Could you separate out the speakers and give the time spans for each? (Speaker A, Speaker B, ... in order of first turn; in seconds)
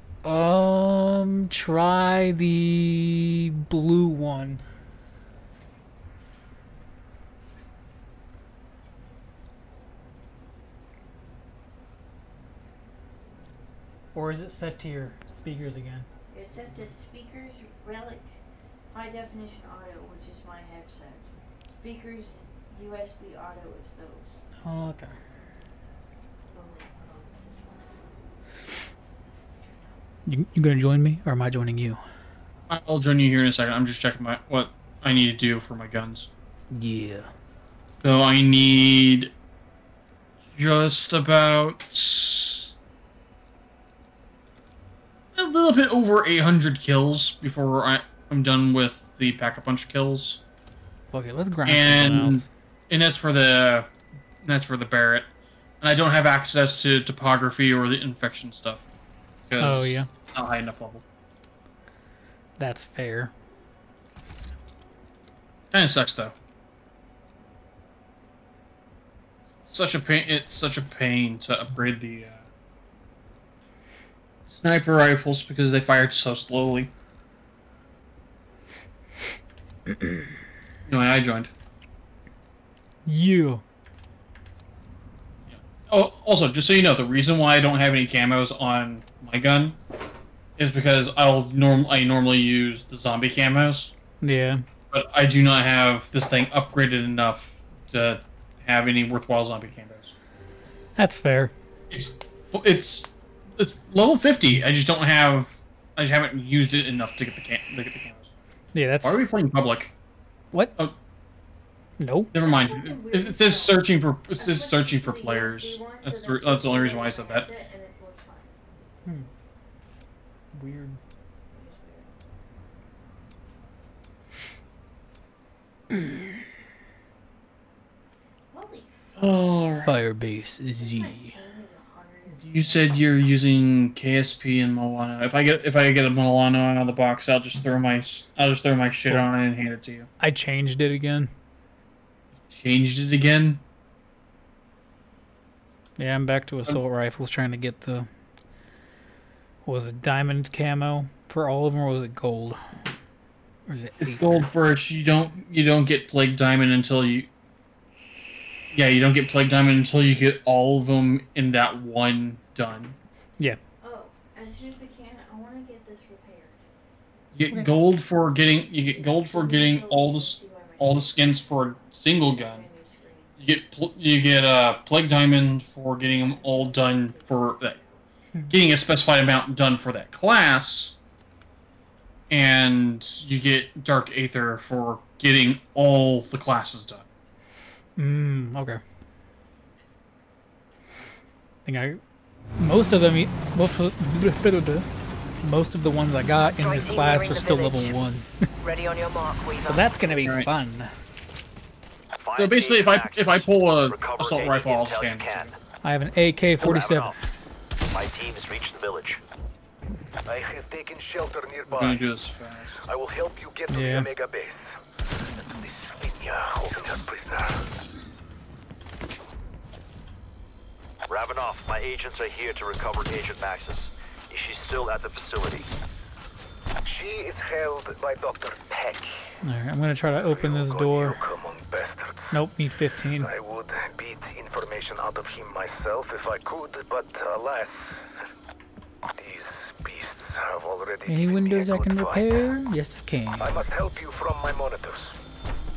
Speaker A: 0.2-4.6, 14.1-16.1, 24.6-25.2, 30.2-32.0, 36.7-37.3, 51.1-52.5, 59.6-60.1, 62.6-63.3, 83.0-83.6, 94.2-94.6, 101.0-101.5, 108.7-109.2, 112.0-112.3, 120.5-121.0, 129.8-131.4, 140.2-141.3, 146.0-148.1, 149.6-152.6, 153.7-154.5, 188.0-188.8, 191.6-192.0, 192.6-194.8, 195.4-198.4, 199.6-200.9, 205.8-207.1, 213.7-214.1, 229.4-231.2, 232.3-233.3, 241.1-243.6
Speaker B: 16.3-18.3, 18.9-24.3, 26.5-28.0, 112.3-118.5, 121.5-122.1, 128.5-129.8, 130.8-133.2, 163.8-166.7, 168.4-171.4, 172.2-173.3, 176.0-178.0
Speaker C: 32.7-36.3, 38.0-39.3, 40.5-42.7, 45.3-50.4, 51.6-53.9, 54.4-55.2, 55.8-58.8, 59.5-61.0, 65.7-66.3, 69.7-72.4, 74.5-76.9, 80.9-81.5, 85.5-89.8, 90.6-93.9, 94.9-100.1, 101.9-108.3, 109.0-109.9, 112.3-117.5, 129.2-129.9, 132.4-140.1, 142.5-143.6, 154.0-157.3, 158.7-162.9, 167.3-172.7, 173.4-177.8, 178.5-180.9, 182.3-187.0, 202.3-205.5, 211.7-212.8
Speaker D: 196.6-198.0, 198.6-199.9
Speaker E: 202.2-205.6, 206.6-207.1, 207.9-209.2, 221.1-225.7
Speaker F: 210.2-212.0, 212.9-214.8, 215.4-217.6, 226.8-229.3, 230.1-232.4, 233.2-238.0, 239.2-242.4, 243.4-245.1